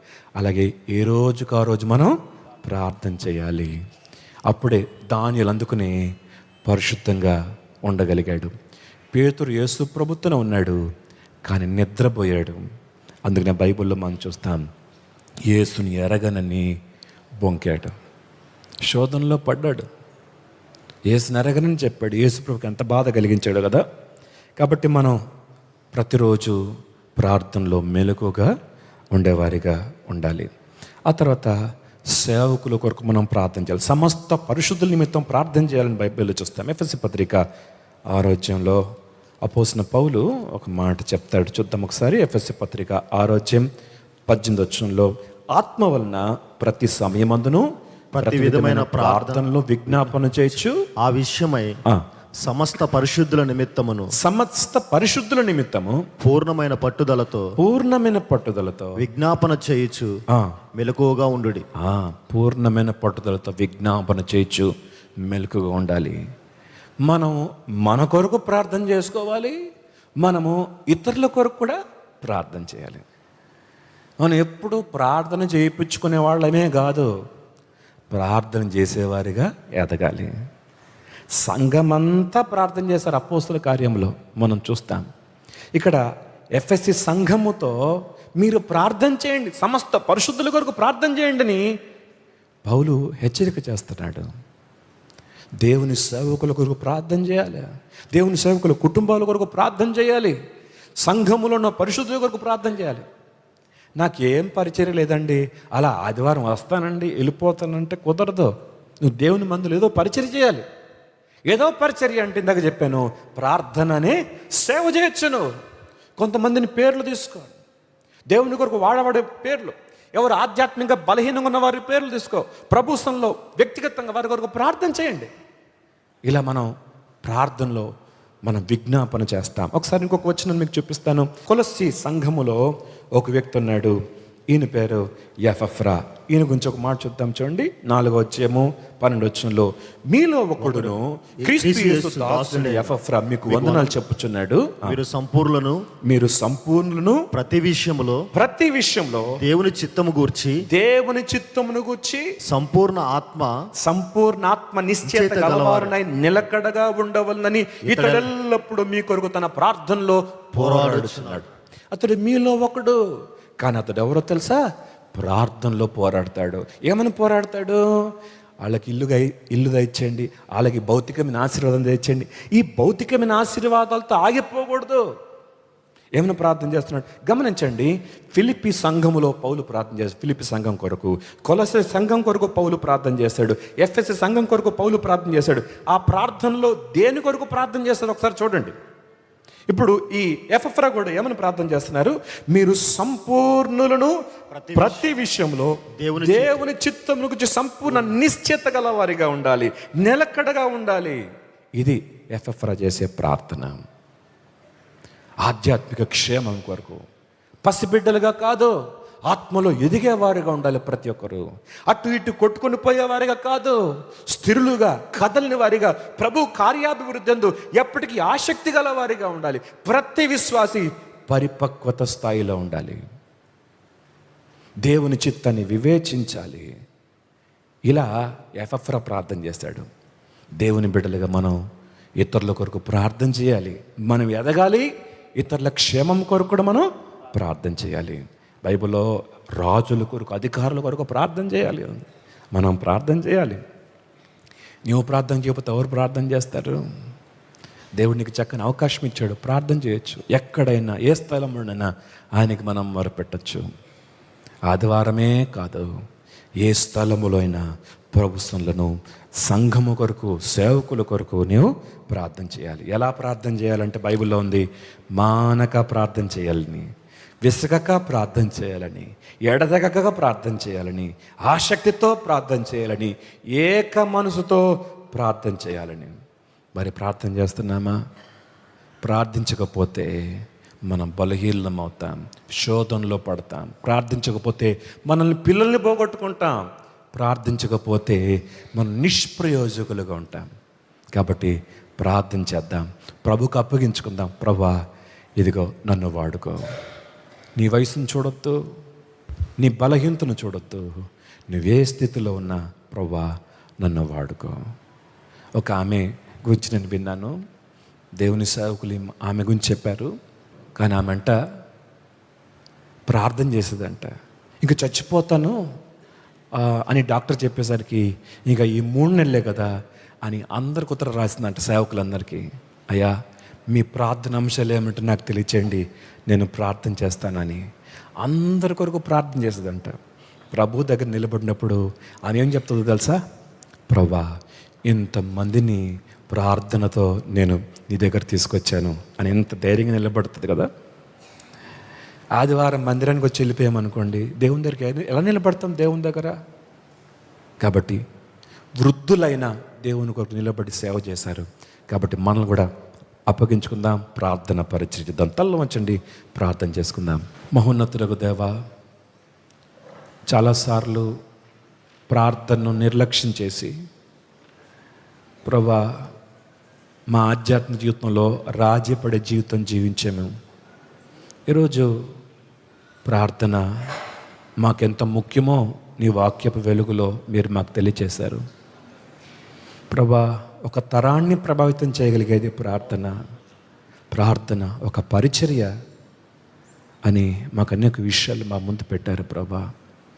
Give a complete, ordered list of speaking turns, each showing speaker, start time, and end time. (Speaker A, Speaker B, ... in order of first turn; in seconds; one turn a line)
Speaker A: 0.4-3.7
Speaker A: 4.5-6.0
Speaker A: 6.7-8.5
Speaker A: 9.1-10.8
Speaker A: 11.5-12.6
Speaker A: 13.3-14.7
Speaker A: 15.5-16.7
Speaker A: 17.4-17.9
Speaker A: 18.9-19.9
Speaker A: 21.1-23.8
Speaker A: 24.6-25.2
Speaker A: 25.9-26.6
Speaker A: 27.2-28.5
Speaker A: 29.1-30.5
Speaker A: 31.1-31.6
Speaker A: 32.1-37.4
Speaker A: 38.1-38.8
Speaker A: 39.4-43.7
Speaker A: 44.3-47.7
Speaker B: 48.1-49.5
Speaker A: 48.2-50.8
Speaker B: 51.0-51.8
Speaker B: 52.4-54.1
Speaker A: 54.1-56.1
Speaker B: 56.2-57.5
Speaker A: 57.6-59.0
Speaker B: 59.0-60.1
Speaker B: 60.8-61.6
Speaker A: 61.8-64.7
Speaker A: 65.2-66.2
Speaker A: 67.0-69.6
Speaker A: 70.2-73.0
Speaker A: 74.2-77.1
Speaker A: 78.1-80.3
Speaker A: 81.4-85.1
Speaker A: 85.8-86.0
Speaker A: 86.6-87.8
Speaker A: 88.4-91.7
Speaker A: 92.7-94.3
Speaker A: 95.6-100.4
Speaker A: 101.0-103.1
Speaker A: 104.0-110.7
Speaker A: 111.5-115.5
Speaker A: 116.2-117.5
Speaker A: 118.3-125.3
Speaker A: 126.3-126.7
Speaker A: 127.2-127.9
Speaker A: 128.5-132.6
Speaker A: 133.2-133.9
Speaker A: 134.5-145.0
Speaker B: 140.6-144.0
Speaker B: 144.8-145.8
Speaker A: 146.1-147.2
Speaker B: 147.3-148.3
Speaker A: 148.3-149.4
Speaker B: 149.4-150.6
Speaker A: 150.7-152.3
Speaker B: 152.5-153.5
Speaker A: 153.8-163.0
Speaker B: 155.1-155.9
Speaker B: 157.8-158.3
Speaker B: 160.6-161.4
Speaker A: 163.6-164.6
Speaker A: 165.2-168.1
Speaker A: 168.6-175.1
Speaker A: 176.2-188.7
Speaker A: 189.7-194.2
Speaker B: 194.5-195.1
Speaker A: 194.8-201.2
Speaker B: 196.0-196.7
Speaker A: 201.8-203.8
Speaker A: 205.4-207.0
Speaker A: 207.6-208.8
Speaker A: 209.3-223.0
Speaker A: 224.8-226.7
Speaker A: 227.9-229.9
Speaker A: 230.6-231.6
Speaker A: 232.2-243.6
Speaker A: 244.9-246.8
Speaker A: 248.0-253.7
Speaker A: 254.7-255.9
Speaker A: 256.6-264.7
Speaker A: 265.2-266.9
Speaker A: 267.4-276.2
Speaker A: 276.8-278.0
Speaker A: 279.0-280.2
Speaker A: 280.9-288.2
Speaker A: 288.8-290.5
Speaker A: 291.1-294.8
Speaker A: 295.4-296.6
Speaker A: 297.6-298.6
Speaker A: 299.6-303.3
Speaker A: 303.8-304.6
Speaker A: 305.6-307.3
Speaker A: 308.2-310.1
Speaker A: 310.8-311.3
Speaker A: 313.1-314.1
Speaker A: 314.6-315.6
Speaker A: 316.6-319.7
Speaker A: 320.2-323.1
Speaker A: 323.7-327.6
Speaker A: 328.2-329.9
Speaker A: 330.5-333.2
Speaker A: 333.9-334.3
Speaker A: 334.9-340.7
Speaker A: 342.4-346.4
Speaker A: 347.6-348.0
Speaker A: 348.8-352.7
Speaker A: 353.3-358.5
Speaker A: 360.3-361.1
Speaker A: 362.1-363.7
Speaker A: 365.5-366.1
Speaker A: 367.1-370.3
Speaker A: 371.5-371.9
Speaker A: 373.1-373.6
Speaker A: 374.6-378.4
Speaker A: 379.9-383.1
Speaker A: 384.1-385.7
Speaker A: 387.1-389.6